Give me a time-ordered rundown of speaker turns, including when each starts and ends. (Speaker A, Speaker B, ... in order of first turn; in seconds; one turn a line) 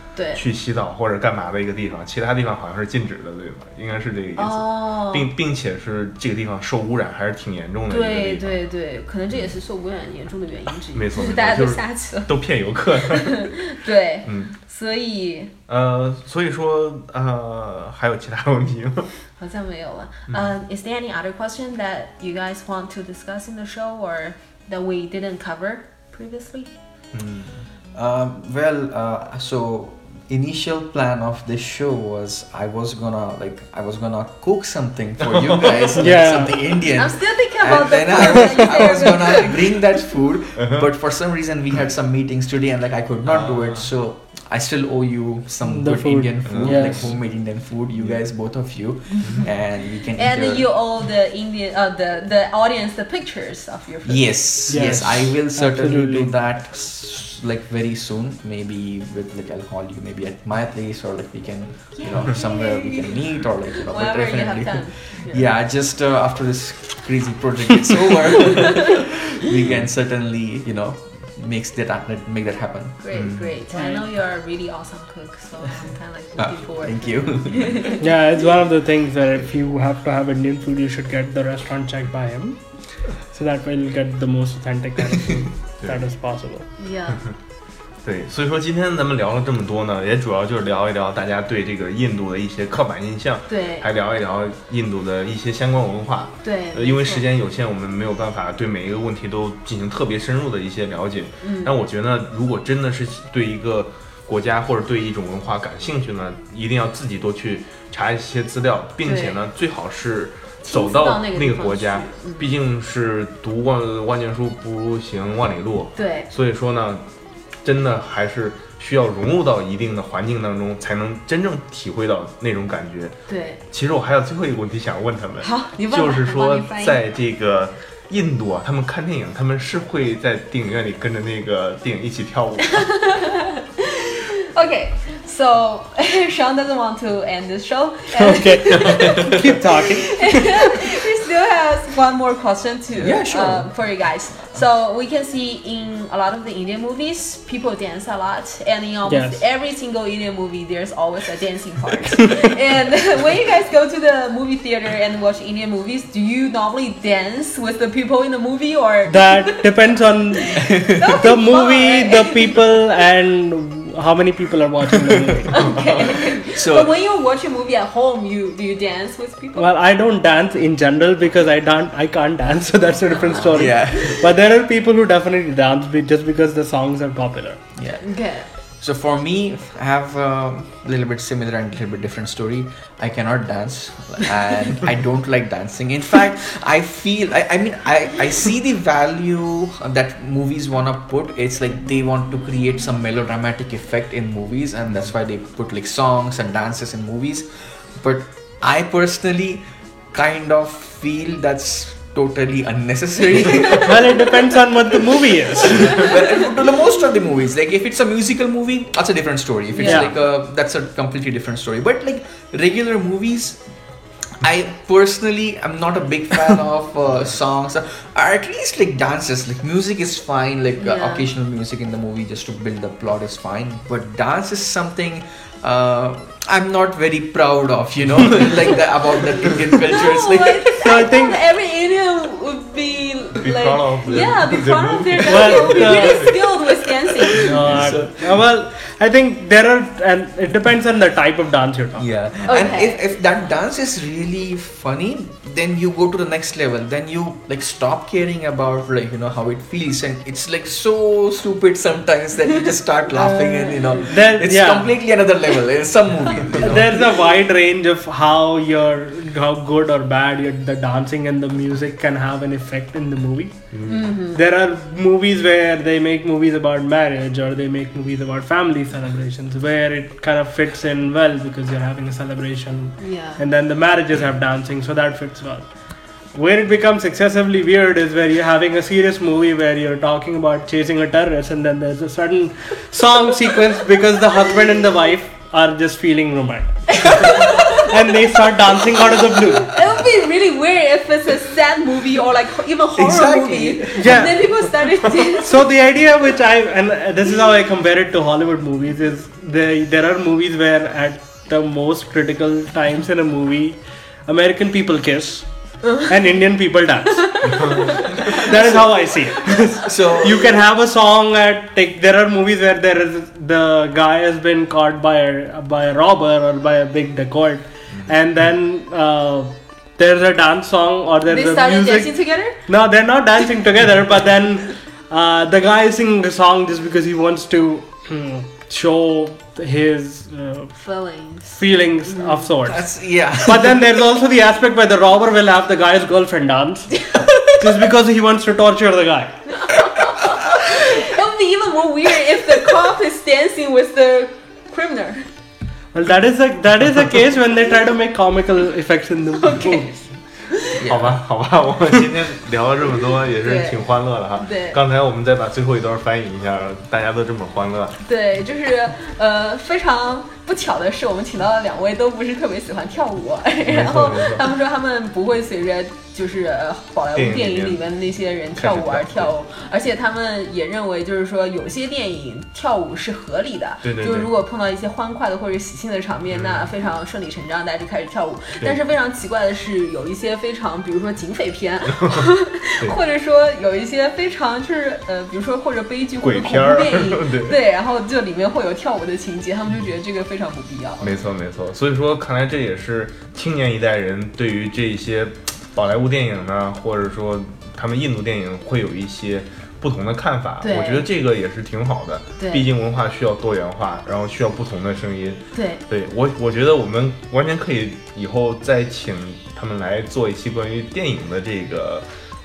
Speaker A: 0.1-0.4
Speaker B: 0.3-8.6
Speaker A: 4.4-5.3
Speaker A: 7.9-12.3
Speaker B: 10.9-13.6
Speaker A: 12.9-15.5
Speaker B: 14.2-14.6
Speaker B: 15.7-19.1
Speaker A: 19.4-26.7
Speaker B: 27.1-27.6
Speaker C: 27.9-50.6
Speaker B: 35.3-36.0
Speaker D: 36.0-36.7
Speaker A: 36.9-39.8
Speaker B: 40.5-40.9
Speaker B: 43.2-43.9
Speaker D: 45.6-47.1
Speaker B: 46.4-47.2
Speaker B: 47.9-48.2
Speaker A: 50.1-54.5
Speaker C: 54.0-73.3
Speaker D: 54.7-56.3
Speaker A: 62.0-65.4
Speaker A: 73.0-78.0
Speaker B: 73.1-73.5
Speaker D: 73.7-74.0
Speaker C: 76.4-77.8
Speaker D: 78.0-86.7
Speaker B: 85.8-86.1
Speaker A: 86.8-87.2
Speaker B: 88.0-117.1
Speaker A: 93.5-93.9
Speaker A: 96.4-97.2
Speaker A: 101.4-101.7
Speaker A: 109.0-109.4
Speaker A: 110.6-112.5
Speaker A: 116.0-116.3
Speaker B: 117.6-123.2
Speaker A: 123.3-123.6
Speaker B: 123.7-133.0
Speaker A: 125.4-127.0
Speaker A: 132.8-159.6
Speaker D: 138.2-140.4
Speaker C: 143.0-143.7
Speaker D: 149.1-149.4
Speaker D: 159.1-165.8
Speaker A: 160.3-162.6
Speaker C: 160.7-161.1
Speaker A: 165.5-169.7
Speaker C: 166.5-166.9
Speaker D: 169.5-177.6
Speaker C: 173.3-174.2
Speaker C: 177.8-204.5
Speaker A: 178.0-178.5
Speaker D: 203.8-206.1
Speaker C: 205.5-213.6
Speaker A: 209.7-210.1
Speaker D: 209.8-210.1
Speaker C: 214.4-230.6
Speaker A: 220.8-221.3
Speaker A: 229.9-237.5
Speaker D: 230.8-231.4
Speaker B: 233.4-236.6
Speaker D: 235.3-236.3
Speaker D: 237.4-242.6
Speaker C: 237.4-238.4
Speaker B: 237.6-238.1
Speaker C: 242.0-257.0
Speaker A: 242.4-243.1
Speaker A: 253.1-254.1
Speaker D: 254.1-254.9
Speaker D: 256.6-289.7
Speaker B: 263.7-264.0
Speaker A: 263.9-264.4
Speaker A: 273.0-273.4
Speaker A: 287.0-287.9
Speaker A: 289.6-295.6
Speaker C: 293.0-294.6
Speaker D: 294.0-294.4
Speaker D: 295.4-339.8
Speaker C: 309.8-310.6
Speaker A: 321.3-322.8
Speaker A: 330.7-332.5
Speaker C: 332.6-333.8
Speaker A: 339.6-345.3
Speaker D: 345.9-350.1
Speaker A: 349.4-349.9
Speaker B: 350.6-358.0
Speaker C: 350.8-351.2
Speaker A: 353.4-353.8
Speaker A: 354.4-354.8
Speaker A: 358.0-391.2
Speaker B: 363.6-364.4
Speaker B: 367.1-367.9
Speaker B: 368.5-369.3
Speaker B: 373.8-374.3
Speaker B: 376.3-376.7
Speaker B: 382.0-382.2
Speaker B: 386.2-387.6
Speaker B: 391.0-412.1
Speaker A: 400.6-401.0
Speaker A: 402.4-402.6
Speaker A: 405.5-405.8